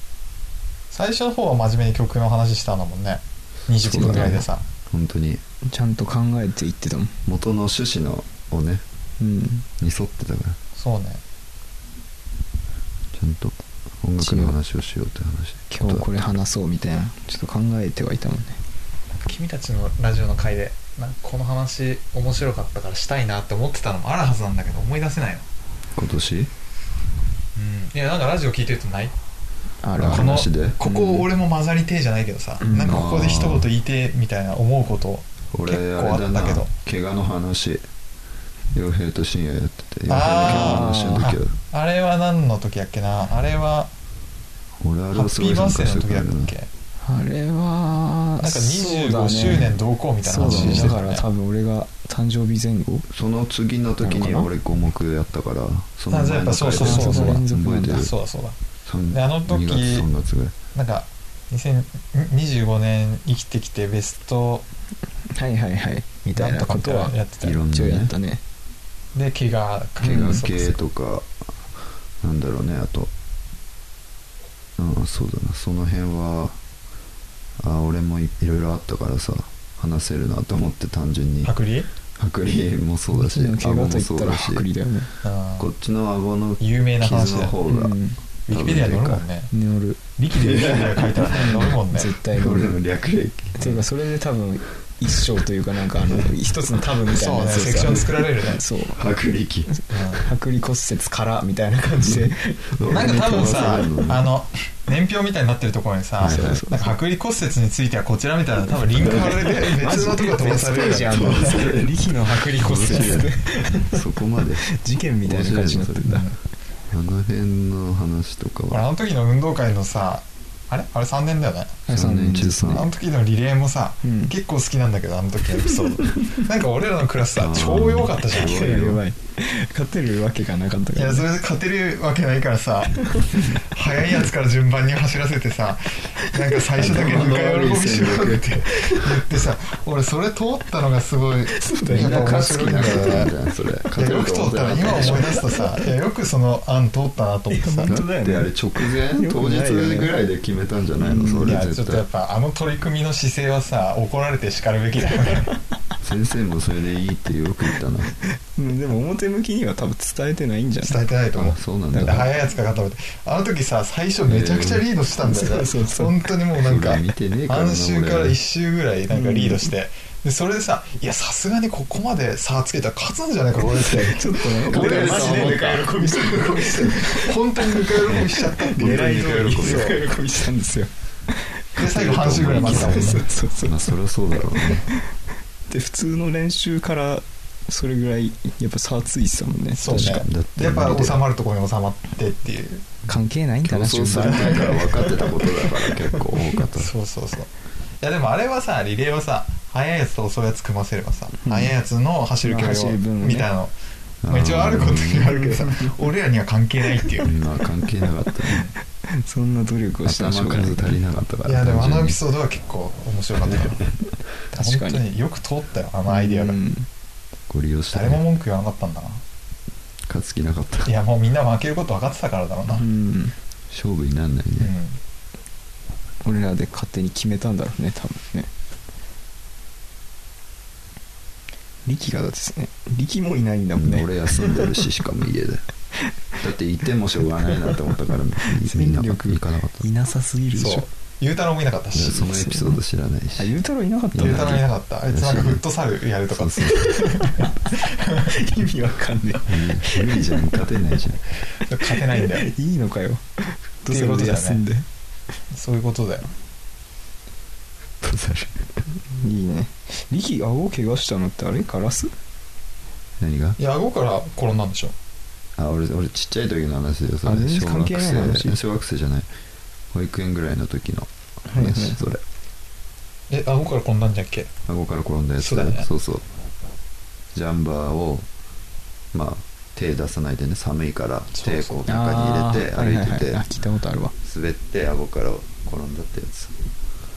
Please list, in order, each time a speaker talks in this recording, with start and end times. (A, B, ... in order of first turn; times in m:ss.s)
0:00.9-0:04.7 A
0:03.8-0:05.4 B
0:04.0-0:04.4 C
0:05.7-0:07.2 C
0:07.3-0:08.8 B
0:09.2-0:09.7 C
0:09.8-0:10.6 B
0:10.8-0:11.2 A
0:13.1-0:16.1 B
0:14.2-0:14.6 C
0:15.7-0:18.6 C
0:19.2-0:25.4 A
0:26.0-0:26.5 B
0:27.6-0:29.2 A
0:29.8-0:31.3 C
0:30.0-0:30.8 B
0:30.0-0:36.7 A
0:32.6-0:33.0 C
0:32.8-0:33.7 B
0:35.5-0:37.8 B
0:38.7-0:41.6 B
0:40.1-0:43.9 A
0:40.4-0:41.3 C
0:44.8-0:46.5 B
0:45.2-0:46.7 A
0:47.0-0:53.1 C
0:48.4-0:51.2 A
0:50.4-0:51.0 B
0:53.1-0:58.1 B
0:54.0-0:54.5 C
0:56.1-0:58.6 A
0:56.8-0:58.1 C
0:58.9-1:00.6 B
0:59.1-1:00.1 A
1:00.8-1:04.7 A
1:05.3-1:08.4 C
1:06.4-1:07.6 A
1:07.4-1:08.1 B
1:09.2-1:10.8 A
1:10.0-1:10.4 C
1:10.0-1:11.3 B
1:12.2-1:13.1 B
1:14.8-1:16.6 B
1:17.6-1:21.5 B
1:21.4-1:21.9 A
1:22.2-1:24.6 B
1:23.1-1:25.1 C
1:25.2-1:25.7 A
1:25.6-1:28.0 B
1:26.6-1:27.6 A
1:27.7-1:28.2 C
1:28.5-1:29.5 A
1:28.5-1:29.2 B
1:29.5-1:30.0 C
1:30.2-1:32.2 A
1:30.3-1:31.8 B
1:31.4-1:32.7 C
1:32.3-1:33.8 B
1:33.6-1:39.0 C
1:37.1-1:38.6 A
1:38.9-1:39.7 B
1:39.7-1:43.0 C
1:39.9-1:40.3 A
1:42.0-1:44.3 B
1:42.9-1:51.6 A
1:46.2-1:46.6 B
1:46.2-1:47.0 C
1:49.0-1:54.0 C
1:49.0-1:49.5 B
1:51.0-1:54.7 B
1:54.6-1:56.3 C
1:55.2-1:56.2 B
1:56.1-1:56.4 A
1:56.9-1:58.8 B
1:58.7-2:01.9 A
2:01.9-2:02.9 C
2:01.9-2:02.9 B
2:02.7-2:08.8 A
2:04.0-2:04.3 C
2:05.7-2:06.4 C
2:07.4-2:09.0 B
2:08.4-2:11.3 C
2:11.0-2:23.3 A
2:13.0-2:13.5 C
2:16.8-2:18.6 B
2:18.7-2:19.1 C
2:21.5-2:23.3 C
2:21.9-2:25.4 B
2:24.0-2:28.0 A
2:24.9-2:25.8 C
2:27.5-2:30.1 C
2:27.9-2:32.0 B
2:31.0-2:31.6 C
2:31.4-2:35.5 A
2:36.0-2:38.1 B
2:38.5-2:41.0 C
2:40.8-3:00.0 A
2:41.3-2:42.3 B
2:41.9-2:42.3 C
2:44.3-2:44.9 B
2:45.2-2:46.3 C
2:46.6-2:48.4 B
2:49.1-2:49.7 C
2:53.6-3:01.6 C
2:54.6-2:55.9 B
2:58.8-3:00.0 B
3:01.8-3:03.3 A
3:01.8-3:04.8 B
3:02.4-3:04.0 C
3:04.6-3:05.0 C
3:05.7-3:10.2 C
3:09.8-3:12.9 A
3:09.9-3:11.2 B
3:13.1-3:15.8 C
3:13.6-3:16.9 B
3:14.3-3:14.6 A
3:16.8-3:17.5 A
3:18.0-3:23.7 A
3:21.4-3:21.7 C
3:22.4-3:23.5 C
3:24.2-3:25.4 B
3:24.3-3:27.3 A
3:25.3-3:25.9 C
3:27.2-3:28.7 B
3:29.1-3:31.0 C
3:30.0-3:32.2 B
3:31.5-3:33.9 A
3:33.4-3:33.9 B
3:34.5-3:36.6 A
3:34.5-3:35.0 C
3:36.1-3:36.9 C
3:37.5-3:38.2 B
3:37.9-3:39.2 A
3:40.1-3:40.9 B
3:40.8-3:42.9 A
3:42.7-3:43.3 C
3:43.7-3:44.7 B
3:44.6-3:45.0 A
3:46.2-3:48.5 C
3:51.9-3:54.7 C
3:53.8-3:55.6 B
3:56.4-3:59.8 B
3:58.5-4:00.9 C
4:00.6-4:02.3 A
4:01.9-4:03.5 B
4:02.3-4:02.8 C
4:03.4-4:04.6 C
4:04.1-4:05.6 B
4:04.2-4:08.3 A
4:06.3-4:06.9 B
4:06.7-4:10.6 C
4:09.5-4:11.2 B
4:11.6-4:12.5 A
4:11.8-4:14.8 C
4:13.9-4:14.6 A
4:15.5-4:16.3 A
4:18.0-4:18.8 B
4:19.1-4:22.1 C
4:23.2-4:23.6 B
4:23.6-4:24.9 A
4:25.6-4:29.3 B
4:27.2-4:28.6 C
4:29.9-4:32.2 B
4:31.5-4:32.1 C
4:33.3-4:34.5 A
4:34.7-4:36.2 B
4:35.4-4:35.9 A
4:37.3-4:38.3 B
4:39.1-4:43.4 B
4:41.4-4:41.8 A
4:41.9-4:44.1 C
4:44.2-4:46.5 B